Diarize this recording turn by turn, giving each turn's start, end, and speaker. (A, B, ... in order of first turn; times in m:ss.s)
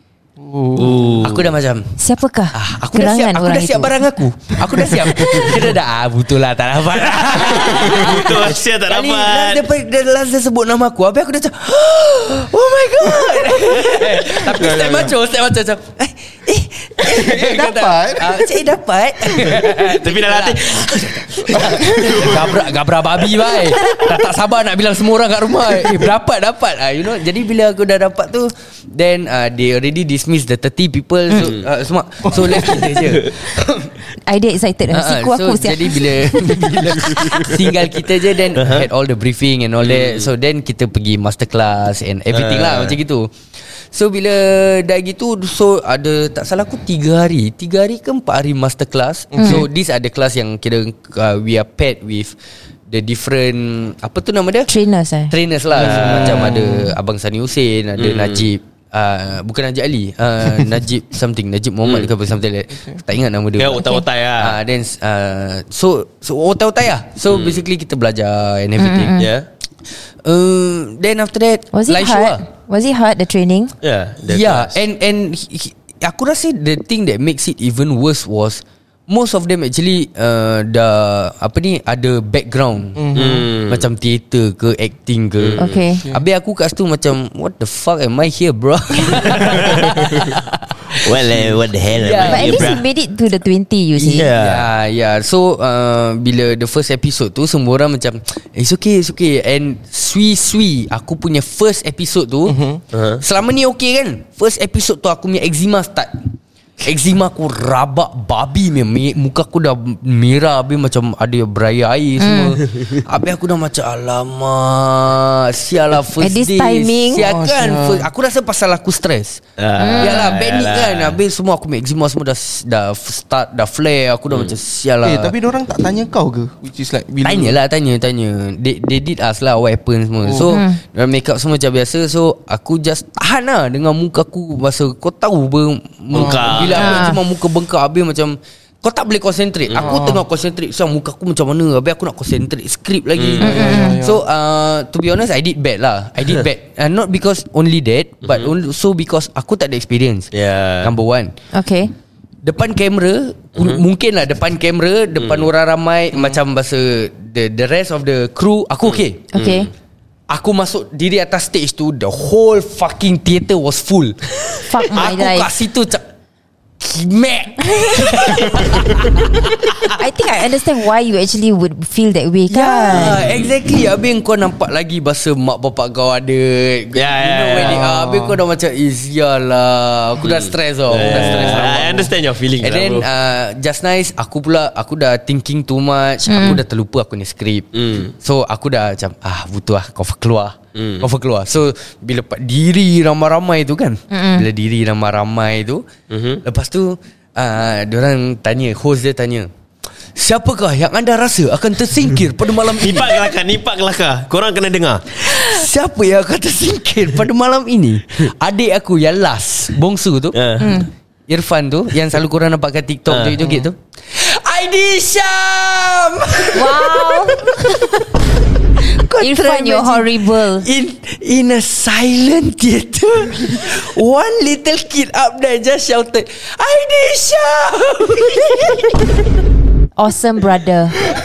0:00.4-0:01.1 A
0:00.8-0:01.5 B
0:01.2-0:02.0 C
0:02.0-0:04.0 D
0:02.5-0:33.9 C
0:04.8-0:05.6 D
0:07.0-0:09.6 B
0:07.8-0:08.2 A
0:13.2-0:15.2 A
0:17.0-0:18.5 A
0:19.4-0:22.5 B
0:21.5-0:22.6 A
0:31.3-0:31.6 B
0:32.5-0:32.8 A
0:34.2-0:37.5 D
0:34.9-0:43.3 C
0:38.6-0:38.9 B
0:39.8-0:40.3 B
0:42.3-0:43.0 B
0:43.9-0:52.4 C
0:49.3-0:49.7 A
0:49.4-0:49.6 D
0:52.9-0:54.7 C
0:54.7-0:55.3 D
0:55.3-1:09.2 C
0:55.7-0:56.9 A
0:55.8-0:56.6 B
0:58.0-0:58.5 B
1:03.6-1:04.6 B
1:03.8-1:04.0 D
1:07.3-1:07.6 B
1:08.8-1:09.3 D
1:09.2-1:09.5 B
1:10.2-1:12.4 C
1:11.7-1:13.7 D
1:13.8-1:14.8 B
1:14.3-1:23.1 C
1:23.0-1:23.5 A
1:23.1-1:23.9 B
1:23.7-1:31.2 C
1:25.4-1:25.8 B
1:25.6-1:26.1 D
1:25.9-1:26.2 A
1:29.3-1:30.1 B
1:30.9-1:32.8 B
1:32.0-1:32.8 C
1:32.2-1:34.3 D
1:34.0-1:42.6 C
1:34.1-1:34.7 B
1:42.5-1:42.8 A
1:42.9-1:43.2 B
1:43.2-1:59.4 C
1:52.2-1:52.6 D
1:56.2-1:57.3 D
1:57.2-1:58.1 A
1:59.6-2:01.2 B
1:59.8-2:00.4 D
2:00.0-2:05.3 C
2:05.0-2:07.6 A
2:07.2-2:30.3 C
2:10.2-2:10.5 A
2:10.5-2:10.8 D
2:16.1-2:16.8 A
2:16.1-2:17.1 B
2:16.7-2:17.2 D
2:19.7-2:20.0 B
2:19.8-2:20.2 A
2:23.2-2:23.7 B
2:23.4-2:24.2 A
2:23.4-2:24.0 D
2:28.2-2:28.5 B
2:30.3-2:30.9 B
2:30.8-2:31.4 C
2:31.5-2:31.9 D
2:32.4-2:39.2 C
2:33.6-2:33.8 B
2:35.2-2:35.5 B
2:38.9-2:39.7 B
2:39.3-2:39.7 D
2:40.3-2:46.0 C
2:44.6-2:45.5 D
2:46.8-2:49.9 C
2:47.7-2:48.6 D
2:49.8-2:53.2 D
2:52.5-3:15.9 C
2:52.9-2:53.5 B
2:57.0-2:57.8 B
2:57.6-2:58.4 A
3:00.2-3:03.1 B
3:01.2-3:01.5 A
3:06.3-3:06.6 D
3:07.7-3:08.1 B
3:10.8-3:11.1 B
3:14.1-3:14.5 D
3:16.1-3:16.4 B
3:16.4-3:19.5 C
3:20.2-3:23.3 C
3:22.6-3:25.2 B
3:25.2-3:30.6 C
3:30.3-3:30.8 B
3:30.6-3:30.9 D
3:31.3-3:38.2 C
3:33.1-3:33.4 B
3:33.4-3:33.7 A
3:36.5-3:37.9 D
3:38.7-3:49.3 C
3:39.2-3:40.7 D
3:50.0-3:51.0 D